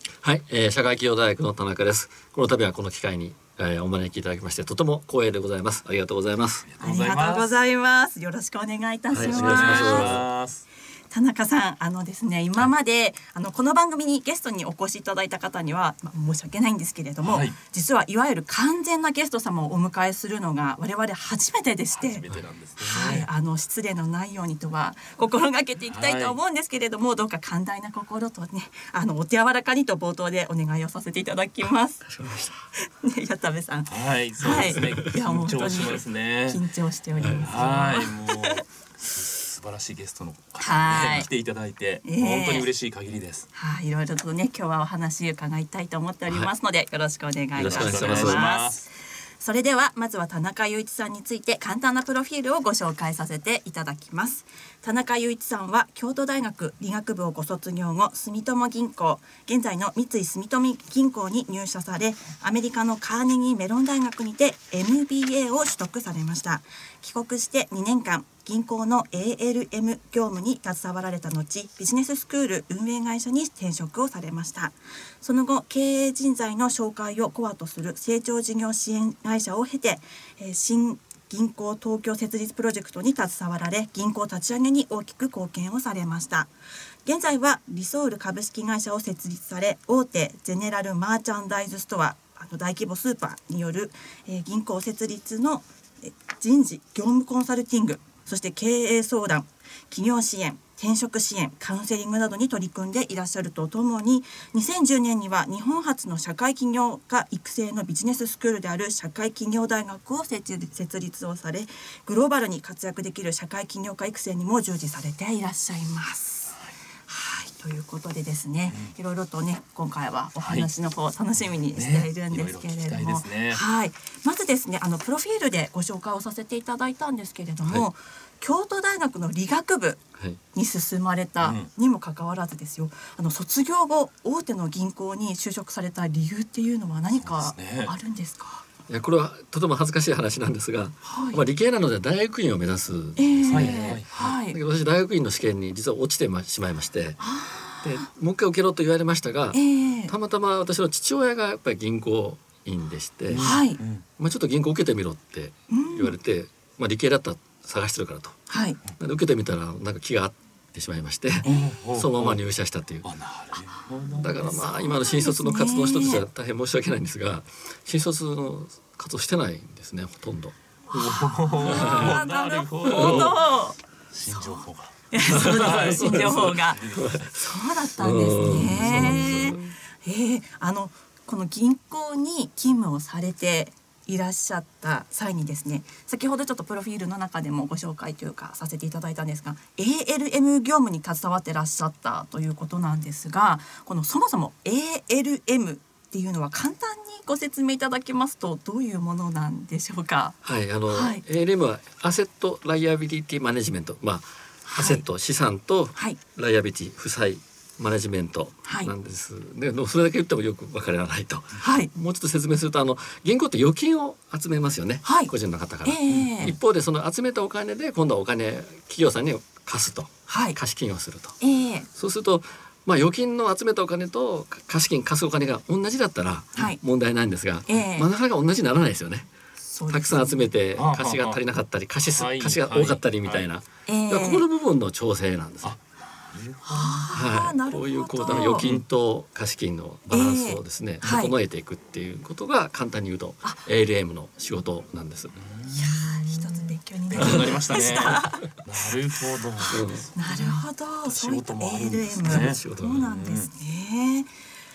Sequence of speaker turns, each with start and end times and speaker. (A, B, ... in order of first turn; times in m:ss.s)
0:00.2-0:06.6 A
0:06.6-0:07.5 B
0:06.8-0:10.2 C
0:09.1-0:10.2 A
0:09.2-0:10.6 B
0:11.1-0:22.2 C
0:17.2-0:17.6 B
0:21.9-0:23.3 B
0:22.3-0:23.2 A
0:22.9-0:32.0 C
0:25.9-0:26.4 B
0:32.0-0:32.6 A
0:32.8-0:38.6 C
0:33.9-0:36.6 B
0:34.5-0:35.0 A
0:37.2-0:37.5 A
0:37.4-0:43.5 B
0:40.6-0:41.3 C
0:40.9-0:41.2 A
0:42.0-0:42.7 C
0:43.5-1:26.5 C
0:47.6-0:48.4 A
0:47.6-0:48.8 B
1:27.0-2:10.0 C
2:00.4-2:00.7 B
2:01.7-2:03.6 B
2:10.5-2:18.6 C
2:11.4-2:11.7 B
2:17.2-2:17.9 B
2:18.9-2:27.3 A
2:21.0-2:21.4 C
2:23.2-2:24.6 C
2:23.5-2:24.1 B
2:27.2-2:28.0 C
2:27.8-2:33.6 A
2:29.5-2:30.1 C
2:33.3-2:34.0 B
2:33.4-2:33.8 C
2:34.2-2:38.4 A
2:35.7-2:36.1 C
2:38.5-2:38.8 C
2:39.0-2:43.1 A
2:41.4-2:41.7 C
2:41.4-2:42.4 B
2:43.0-2:44.5 B
2:44.1-2:50.6 A
2:44.5-2:46.2 C
2:50.9-2:53.5 B
2:50.9-2:53.8 C
2:51.6-2:52.2 A
2:52.8-2:53.3 A
2:54.1-2:57.4 B
2:54.3-3:20.4 C
2:55.2-2:59.7 A
2:58.4-2:59.6 B
3:20.4-3:41.4 A
3:20.9-3:21.2 C
3:24.6-3:25.0 C
3:28.6-3:28.9 C
3:31.6-3:31.9 C
3:35.0-3:35.3 C
3:35.8-3:36.5 C
3:36.2-3:36.5 B
3:40.3-3:40.6 C
3:41.4-3:41.9 C
3:41.9-3:49.3 A
3:46.5-3:46.8 C
3:47.7-3:48.1 C
3:49.7-3:50.4 C
3:49.9-3:55.8 A
3:50.8-3:51.4 B
3:52.1-3:53.4 B
3:53.9-3:54.4 C
3:55.6-3:57.2 B
3:56.7-3:58.7 C
3:57.1-4:05.4 A
3:58.3-3:58.8 B
4:00.1-4:01.3 C
4:05.4-4:06.1 B
4:05.6-4:08.5 C
4:07.1-4:13.5 B
4:07.2-4:07.6 A
4:09.6-4:14.3 C
4:09.7-4:10.1 A
4:12.2-4:13.0 A